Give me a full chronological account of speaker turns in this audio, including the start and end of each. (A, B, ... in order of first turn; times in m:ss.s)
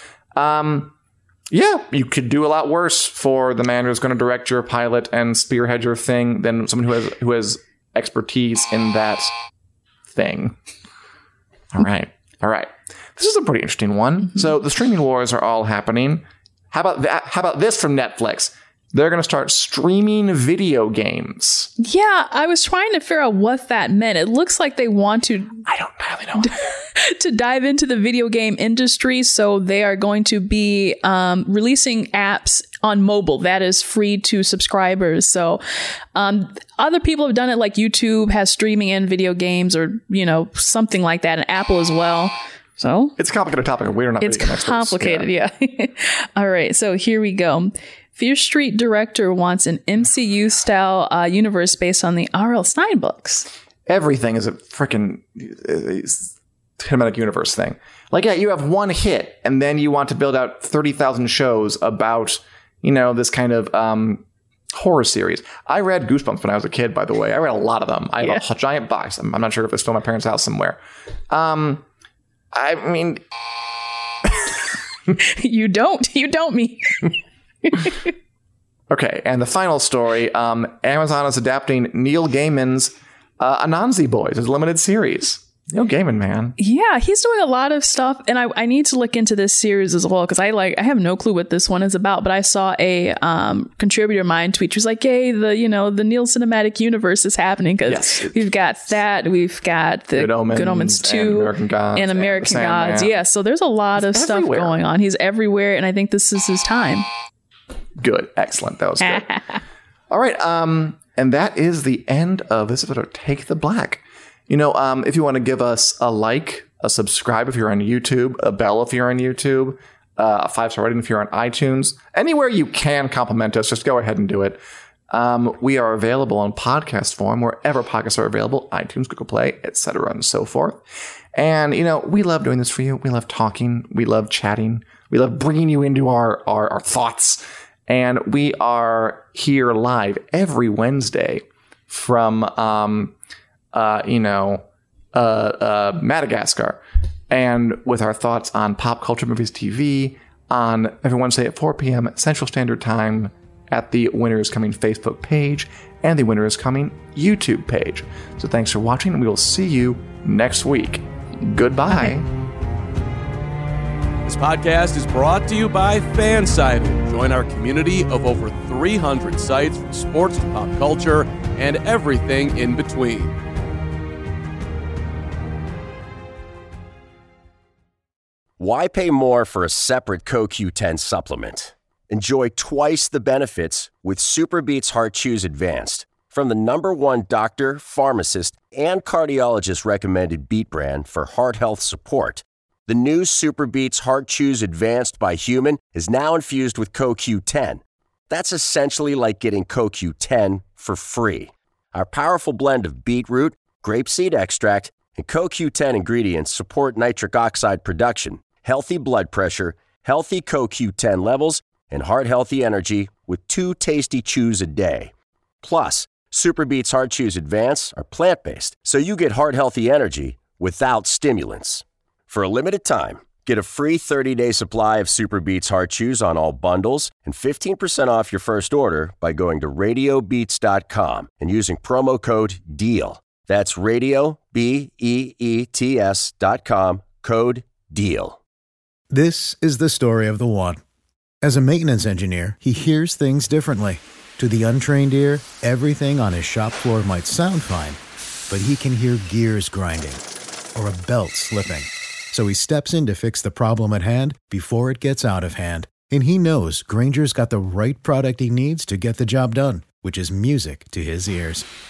0:00.3-0:00.9 A
0:01.5-0:09.3 A
0:10.1-0:10.6 A
0:11.7-0:21.7 A
0:21.8-0:25.6 B
0:25.6-0:26.6 A
0:26.4-0:35.6 B
0:36.1-0:43.1 B
0:43.2-0:45.3 A
0:44.2-0:53.5 B
0:53.9-1:10.8 A
1:11.3-1:11.8 A
1:12.5-1:13.2 A
1:15.2-1:18.1 B
1:18.9-1:26.6 A
1:26.6-1:47.0 B
1:37.8-1:38.5 A
1:40.1-1:43.1 A
1:44.0-1:44.8 A
1:48.0-1:49.4 A
1:49.0-1:49.6 B
1:50.1-2:04.6 A
2:05.1-2:10.8 A
2:11.3-2:23.1 A
2:23.7-2:42.3 A
2:44.2-2:53.3 C
2:58.6-3:35.1 D
3:35.6-3:58.4 D
3:59.1-4:00.8 E
4:01.4-4:10.2 E
4:10.7-4:21.6 E